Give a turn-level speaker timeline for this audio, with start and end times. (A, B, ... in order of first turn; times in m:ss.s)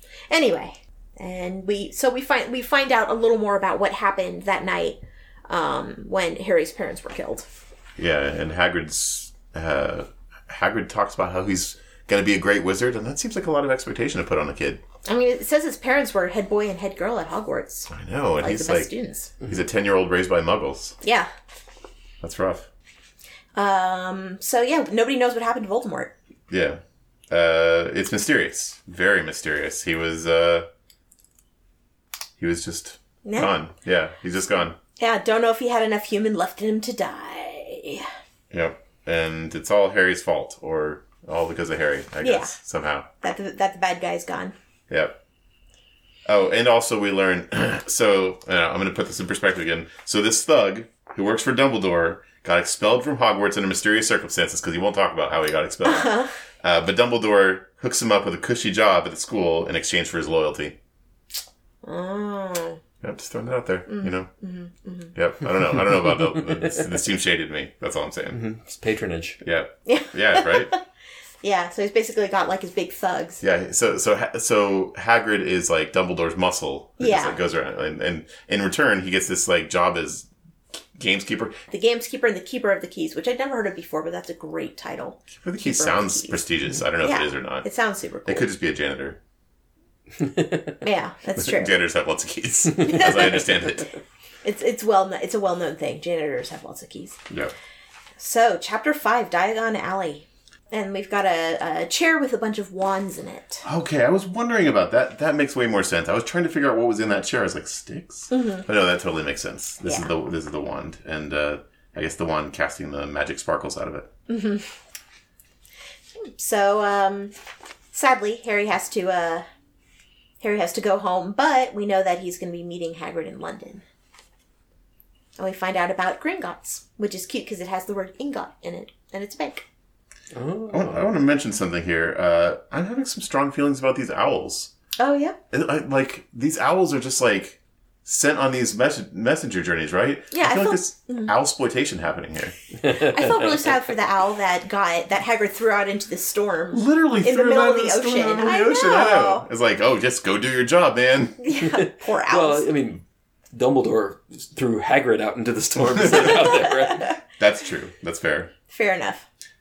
0:00.3-0:07.5 A
0:08.0-0:14.8 B
0:15.0-0:19.3 A
0:17.9-0:18.9 B
0:19.4-0:21.0 B
0:21.0-0:21.3 A
0:22.2-0:22.7 B
0:23.5-0:26.1 A
0:26.5-0:30.7 B
0:32.4-0:34.8 B
0:33.2-0:33.5 A
0:35.0-0:38.1 A
0:38.5-0:43.1 B
0:42.2-0:42.5 A
0:43.2-0:44.5 A
0:44.9-0:45.2 B
0:46.2-1:00.8 B
0:55.8-0:56.3 A
1:01.8-1:02.8 A
1:03.0-1:04.3 B
1:03.9-1:05.1 A
1:05.1-1:08.4 B
1:05.9-1:06.8 C
1:08.3-1:09.4 C
1:09.4-1:10.7 B
1:09.9-1:10.8 A
1:11.4-1:13.4 A
1:13.4-1:20.3 B
1:17.0-1:17.4 A
1:21.0-1:21.6 B
1:21.7-1:26.4 A
1:25.4-1:27.7 B
1:27.0-1:28.5 A
1:28.2-1:29.2 B
1:30.2-1:30.7 C
1:30.8-1:31.7 A
1:31.4-1:33.9 B
1:32.8-1:33.5 A
1:34.4-1:37.2 A
1:38.2-1:43.6 A
1:43.6-1:54.1 B
1:48.3-1:48.7 A
1:49.8-1:50.1 A
1:54.3-1:54.7 A
1:56.2-1:57.3 A
1:57.9-1:59.4 A
2:00.4-2:03.8 A
2:05.4-2:09.6 A
2:10.3-2:11.1 C
2:10.7-2:14.7 B
2:15.0-2:15.4 A
2:15.5-2:22.5 B
2:20.3-2:21.3 A
2:22.8-2:23.7 C
2:22.8-2:29.4 A
2:26.7-2:31.4 B
2:31.4-2:32.7 A
2:31.6-2:37.1 C
2:36.0-2:36.5 B
2:37.4-2:38.5 B
2:38.7-2:39.2 A